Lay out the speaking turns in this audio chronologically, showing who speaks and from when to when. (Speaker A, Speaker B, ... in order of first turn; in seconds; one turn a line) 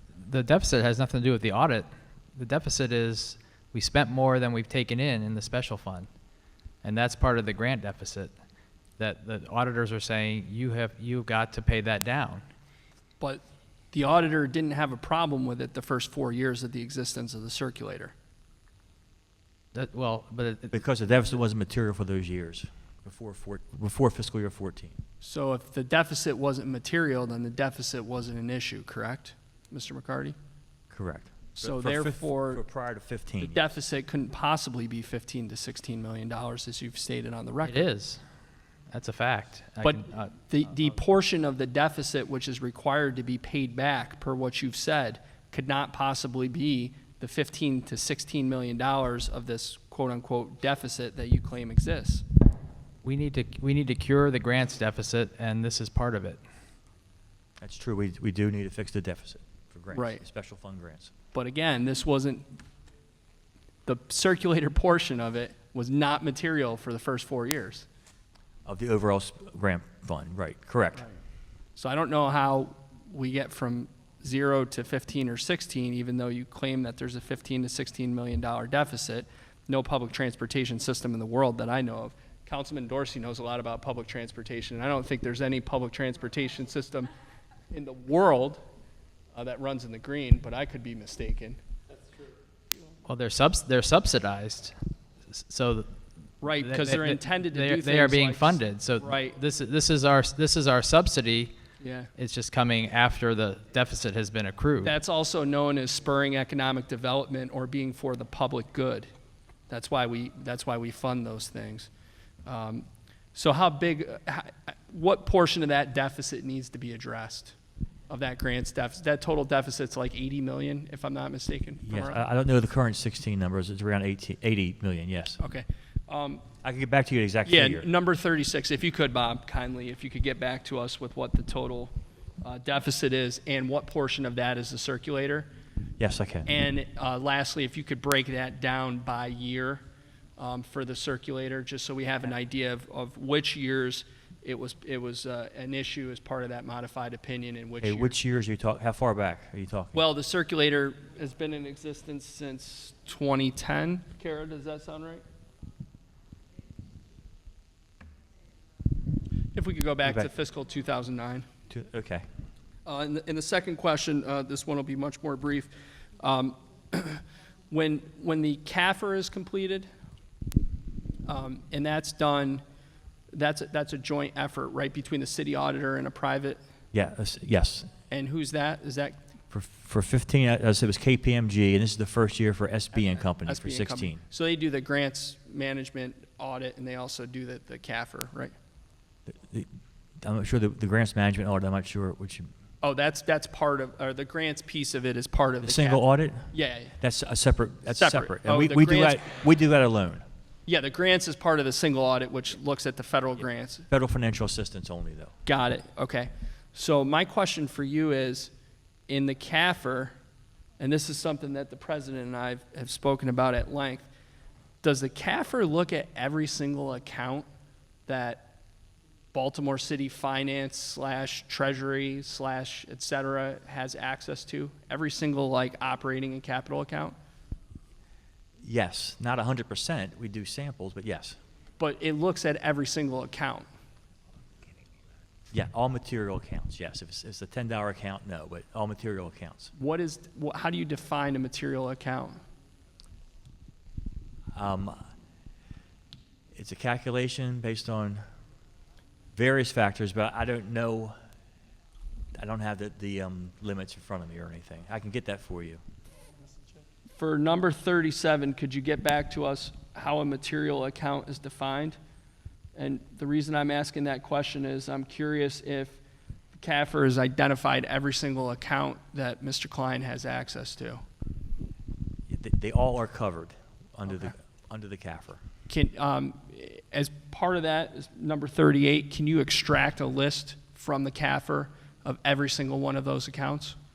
Speaker A: 0.1-6.1
Speaker A: 6.8-8.3
Speaker A: 9.0-12.4
Speaker B: 13.2-18.1
Speaker A: 19.7-20.8
Speaker C: 20.7-25.0
Speaker B: 25.2-30.3
Speaker C: 30.9-33.6
Speaker B: 31.5-32.6
Speaker B: 33.4-37.8
Speaker A: 37.6-38.2
Speaker A: 38.9-40.3
Speaker B: 39.8-52.2
Speaker A: 53.0-56.4
Speaker C: 57.6-61.1
Speaker B: 59.9-60.2
Speaker B: 61.3-62.5
Speaker B: 63.9-67.8
Speaker C: 68.6-71.1
Speaker B: 71.8-87.1
Speaker B: 87.7-88.6
Speaker B: 89.3-91.6
Speaker A: 93.0-94.7
Speaker A: 95.3-95.9
Speaker B: 96.4-99.3
Speaker A: 96.5-101.5
Speaker B: 101.8-102.1
Speaker A: 102.2-104.9
Speaker B: 104.8-109.1
Speaker B: 109.7-111.9
Speaker B: 112.5-117.6
Speaker B: 118.1-122.2
Speaker C: 121.8-125.4
Speaker B: 125.4-126.5
Speaker C: 126.6-127.9
Speaker B: 127.4-135.5
Speaker C: 136.0-136.5
Speaker B: 136.4-139.8
Speaker B: 140.4-148.2
Speaker C: 147.8-150.0
Speaker B: 149.9-155.2
Speaker B: 159.5-161.5
Speaker C: 160.0-160.3
Speaker C: 161.7-162.2
Speaker B: 162.8-169.9
Speaker B: 171.2-172.6
Speaker B: 173.3-176.6
Speaker C: 176.9-177.9
Speaker B: 178.1-179.2
Speaker C: 179.5-184.2
Speaker B: 183.3-188.5
Speaker C: 189.3-189.7
Speaker C: 190.2-192.5
Speaker B: 192.8-197.0
Speaker C: 195.6-200.2
Speaker B: 197.9-199.2
Speaker B: 200.7-203.9
Speaker C: 203.9-205.3
Speaker B: 205.4-208.5
Speaker B: 209.1-210.1
Speaker B: 210.8-214.1
Speaker B: 214.8-217.4
Speaker B: 218.1-218.5
Speaker B: 219.3-227.2
Speaker C: 228.6-231.4
Speaker B: 231.8-233.7
Speaker C: 235.5-239.7
Speaker B: 239.8-242.4
Speaker C: 244.5-245.0
Speaker C: 246.5-248.2
Speaker C: 249.3-251.2
Speaker C: 252.4-255.8
Speaker B: 257.2-262.0
Speaker B: 262.8-266.0
Speaker B: 266.5-271.0
Speaker C: 272.3-275.4
Speaker B: 275.7-283.8